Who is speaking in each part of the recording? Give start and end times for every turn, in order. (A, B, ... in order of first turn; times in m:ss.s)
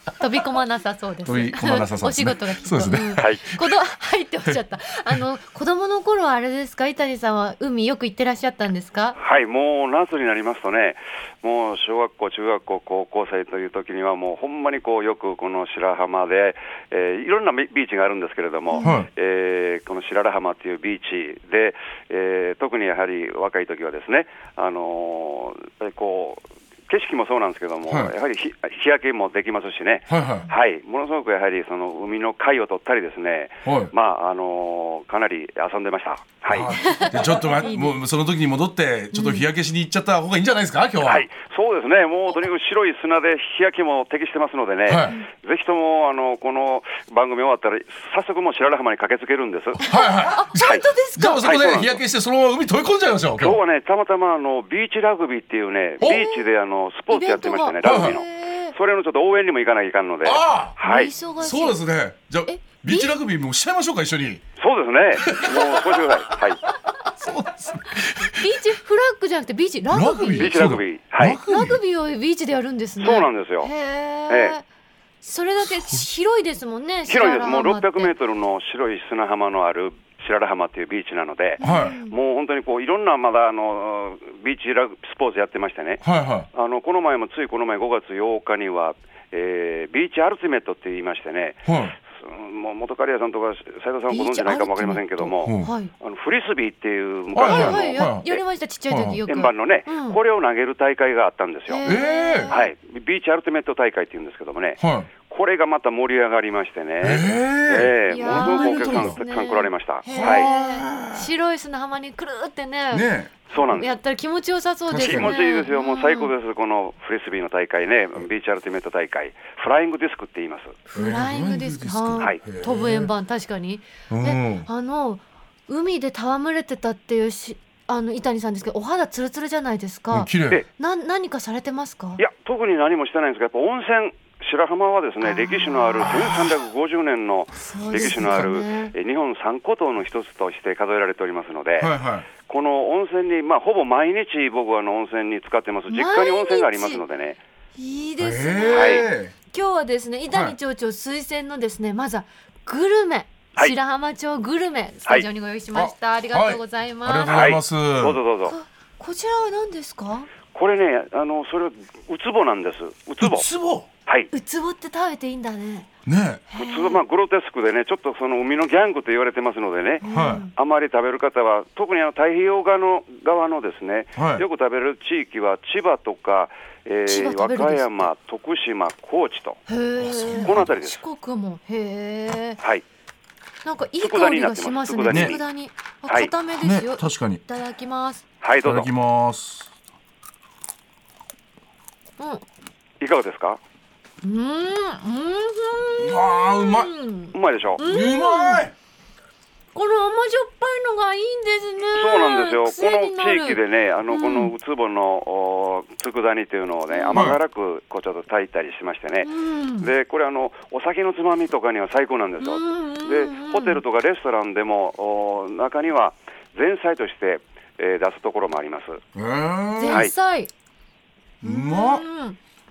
0:00.2-0:09.2 A
0:01.2-0:03.7 B
0:03.2-0:03.4 C
0:09.2-0:37.0 C
0:18.8-0:19.1 B
0:27.9-0:28.1 B
0:30.1-0:30.5 B
0:33.6-0:33.9 B
0:36.5-0:41.3 B
0:36.7-0:37.9 A
0:39.1-0:39.4 A
0:41.0-0:49.8 C
0:44.9-0:45.2 B
0:49.8-0:53.6 B
0:49.8-0:51.4 A
0:50.6-0:50.8 C
0:51.4-0:52.0 C
0:53.4-1:01.1 C
0:56.0-0:56.4 B
0:57.1-0:58.7 A
0:57.8-0:58.2 B
1:00.2-1:00.8 B
1:00.8-1:01.8 A
1:01.4-1:04.4 B
1:02.5-1:03.1 A
1:04.6-1:06.6 C
1:05.2-1:08.6 B
1:08.3-1:10.6 A
1:09.9-1:11.8 B
1:10.4-1:11.4 C
1:11.5-1:14.6 A
1:13.0-1:13.7 C
1:14.3-1:14.6 C
1:15.2-1:18.1 A
1:15.6-1:16.0 B
1:17.1-1:38.4 C
1:21.6-1:22.0 B
1:21.6-1:22.1 A
1:26.0-1:26.5 B
1:31.6-1:32.0 B
1:34.1-1:35.9 A
1:35.4-1:35.7 B
1:37.3-1:38.2 B
1:37.4-1:40.2 A
1:38.9-1:39.2 B
1:39.3-1:41.9 C
1:41.7-1:42.6 A
1:41.8-1:42.6 B
1:42.5-1:50.5 C
1:44.8-1:45.1 B
1:47.0-1:49.2 B
1:48.1-1:53.0 A
1:50.1-1:51.3 B
1:52.9-1:53.3 B
1:53.5-1:54.0 C
1:53.6-1:56.3 A
1:54.9-1:55.4 B
1:55.0-2:00.8 C
2:00.9-2:12.2 A
2:00.9-2:03.1 B
2:04.1-2:04.7 B
2:10.1-2:10.6 B
2:12.2-2:21.9 C
2:15.2-2:16.1 A
2:16.0-2:16.5 B
2:17.6-2:18.9 A
2:17.9-2:18.5 B
2:21.8-2:22.3 B
2:22.4-2:27.4 C
2:25.9-2:27.0 A
2:27.8-2:37.4 A
2:28.2-2:29.3 B
2:28.7-2:29.0 C
2:30.3-2:30.6 B
2:35.7-2:38.2 B
2:37.2-2:38.6 C
2:38.4-2:40.3 A
2:40.5-2:43.4 C
2:43.2-2:43.9 B
2:44.3-2:45.9 A
2:46.0-2:46.4 B
2:46.5-2:47.0 A
2:46.6-2:59.6 C
2:50.0-2:50.5 A
2:50.0-2:50.4 B
2:54.2-2:54.4 B
2:57.1-2:58.1 A
2:59.7-3:02.6 A
3:00.0-3:00.7 B
3:00.3-3:01.0 C
3:03.6-3:08.2 A
3:04.0-3:05.4 C
3:05.1-3:05.4 B
3:06.6-3:07.4 B
3:08.4-3:08.9 C
3:08.6-3:09.7 B
3:12.2-3:12.4 A
3:13.0-3:13.6 C
3:14.2-3:18.7 A
3:16.0-3:16.9 B
3:17.3-3:17.8 C
3:17.8-3:18.7 B
3:19.7-3:24.5 A
3:21.9-3:39.0 C
3:26.9-3:27.2 A
3:27.1-3:27.4 B
3:29.2-3:29.9 A
3:32.4-3:33.8 A
3:39.1-3:40.1 B
3:39.8-3:40.5 A
3:41.4-3:42.0 B
3:41.4-3:42.4 A